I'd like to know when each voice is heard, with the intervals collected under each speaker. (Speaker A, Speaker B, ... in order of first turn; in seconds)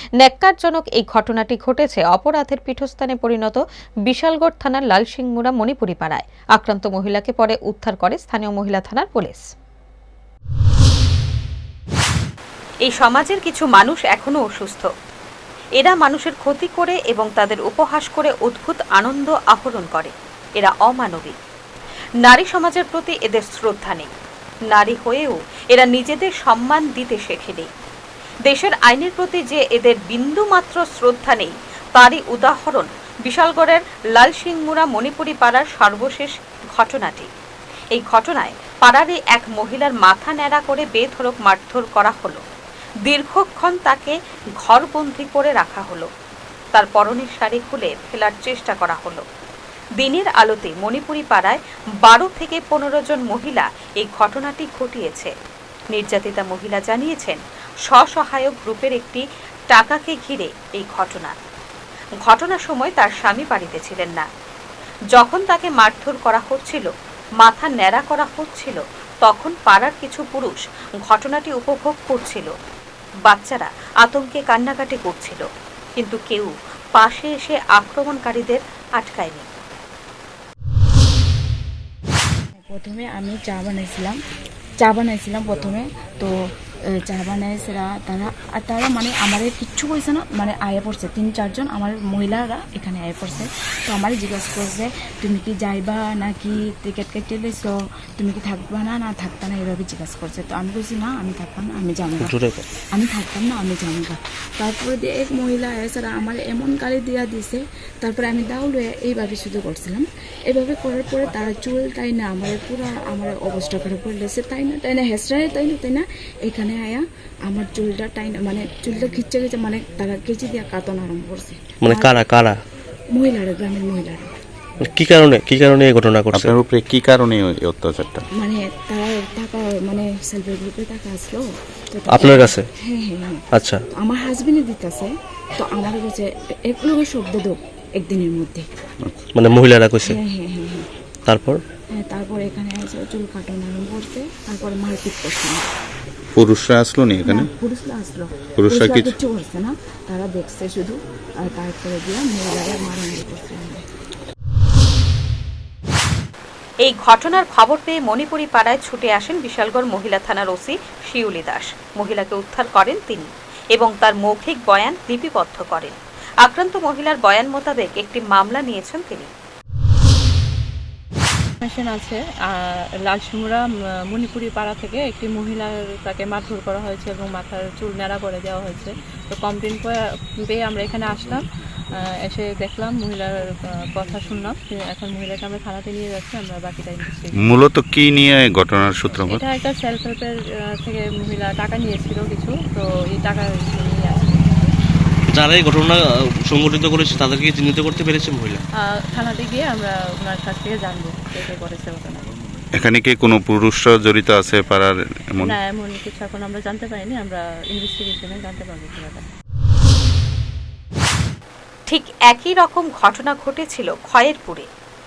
Speaker A: 0.2-3.6, 4.1-9.5, 12.8-14.9, 15.8-21.4, 22.2-24.1, 24.7-27.7, 28.5-37.3, 37.9-42.4, 43.0-46.1, 46.7-49.2, 50.0-55.3, 55.9-61.4, 62.2-64.3, 65.1-66.9, 67.4-72.5, 73.3-75.5, 76.0-79.5, 156.8-169.3, 211.9-214.7
Speaker B: 82.7-84.2, 84.8-86.3, 86.9-102.3, 102.9-122.2, 123.1-124.3, 128.4-138.7, 140.0-140.9, 141.9-145.7, 147.3-153.8
Speaker C: 102.2-102.6, 121.8-122.6, 124.8-126.5, 132.1-132.7, 133.5-133.8, 139.3-140.2, 141.3-141.6, 195.3-198.6
Speaker D: 126.3-128.2, 146.3-147.5, 148.6-149.2, 187.4-189.4, 202.8-205.6
Speaker E: 171.6-181.5, 182.2-187.4, 189.2-194.7, 198.9-202.3, 205.4-209.2